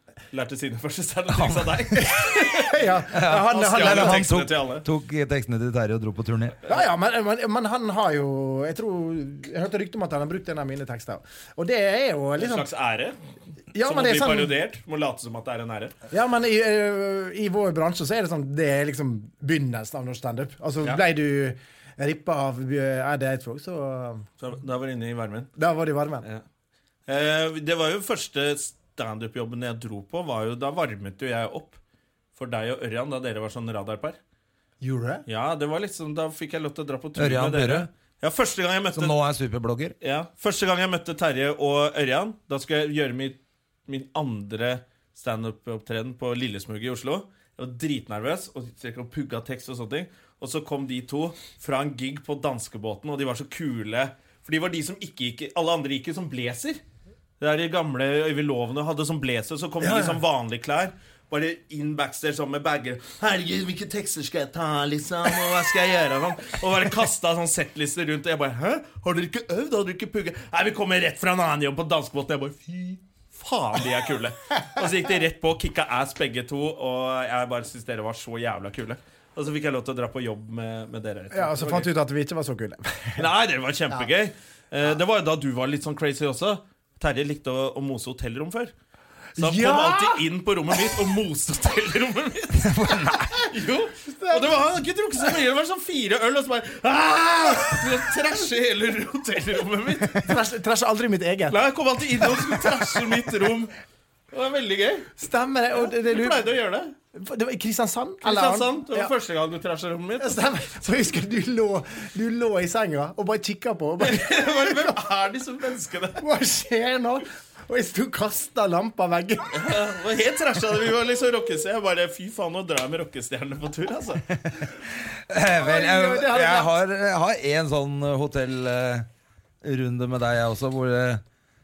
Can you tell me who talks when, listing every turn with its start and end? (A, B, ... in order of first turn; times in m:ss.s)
0:00.3-0:04.9 A
0:01.3-0:02.1 B
0:02.0-0:04.3 C
0:03.1-0:06.6 B
0:06.7-0:12.7 C
0:12.4-0:13.2 A
0:13.7-0:14.6 C
0:13.8-0:15.9 A
0:16.1-0:24.2 C
0:24.4-0:25.5 A
0:25.6-0:26.3 C
0:27.1-0:31.8 A
0:32.4-0:34.2 A
0:34.8-0:35.2 C
0:35.3-0:39.2 A
0:37.2-0:37.9 B
0:39.0-0:40.0 B
0:40.0-0:56.8 A
0:57.4-1:21.9 A
0:59.8-1:00.2 C
1:21.3-1:23.2 C
1:23.2-1:28.7 A
1:29.4-1:30.3 C
1:29.4-1:32.7 A
1:32.6-1:33.5 B
1:33.5-1:40.2 A
1:34.1-1:34.6 C
1:40.2-1:41.6 C
1:41.5-1:43.7 A
1:44.3-1:45.1 A
1:45.2-1:46.5 C
1:45.7-1:46.9 A
1:47.1-1:49.1 C
1:48.2-1:50.4 A
1:50.2-1:55.0 C
1:54.0-1:56.2 A
1:56.2-1:59.7 C
1:59.5-2:04.2 A
2:04.3-2:09.1 B
2:05.6-2:06.7 C
2:09.6-2:11.2 B